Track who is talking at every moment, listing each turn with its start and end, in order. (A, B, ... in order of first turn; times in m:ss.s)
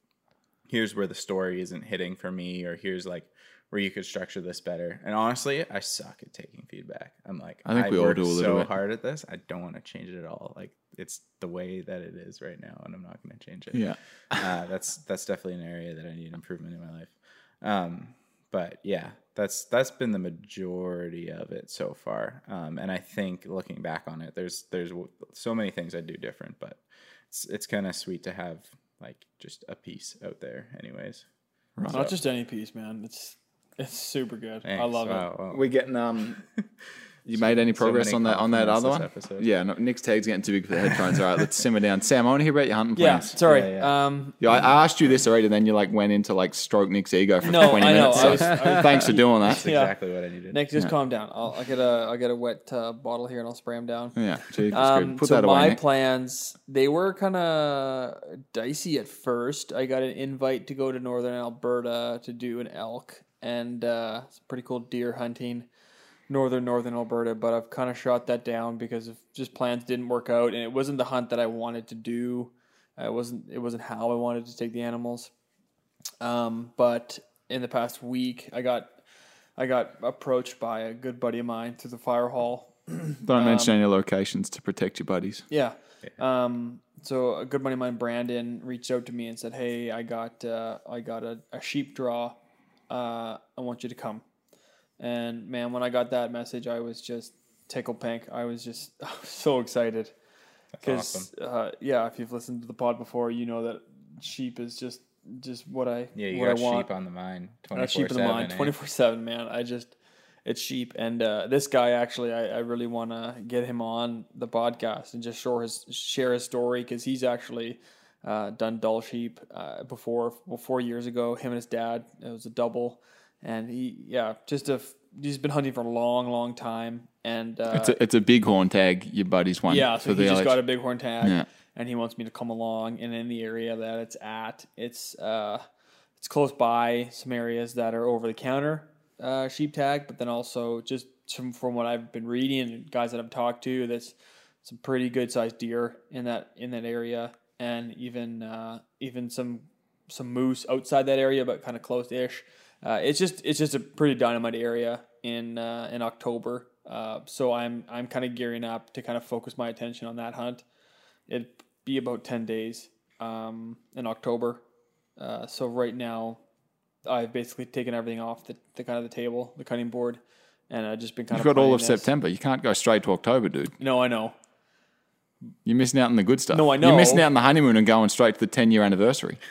0:00.7-0:31.2 A
0:07.6-0:08.7 B
0:13.7-0:14.5 B
0:31.8-0:32.0 B
0:31.9-0:32.2 A
0:31.9-0:35.3 C
0:34.6-0:35.6 A
0:35.5-0:36.4 B
0:37.2-0:43.3 B
0:37.3-0:39.5 A
0:43.0-0:44.4 C
0:43.3-0:43.9 A
0:44.4-0:49.6 B
0:47.4-0:49.9 C
0:49.4-0:50.6 A
0:50.5-0:54.2 C
0:54.2-0:55.8 B
0:54.7-1:05.7 C
1:06.3-1:15.3 C
1:16.2-1:18.9 C
1:19.6-1:23.8 C
1:23.2-1:25.5 B
1:25.5-1:32.4 C
1:32.9-1:34.2 C
1:35.0-1:40.1 C
1:40.7-1:41.3 A
1:40.8-1:46.9 C
1:46.1-1:48.7 A
1:47.7-2:08.0 C
2:07.7-2:10.6 B
2:09.7-2:15.6 C
2:11.2-2:11.5 B
2:16.2-2:40.6 C
2:41.3-2:44.6 C
2:45.2-2:46.4 C
2:47.0-2:52.1 C
2:51.3-2:53.7 B
2:53.8-2:54.3 C
2:55.6-2:59.4 B
2:56.5-2:57.3 C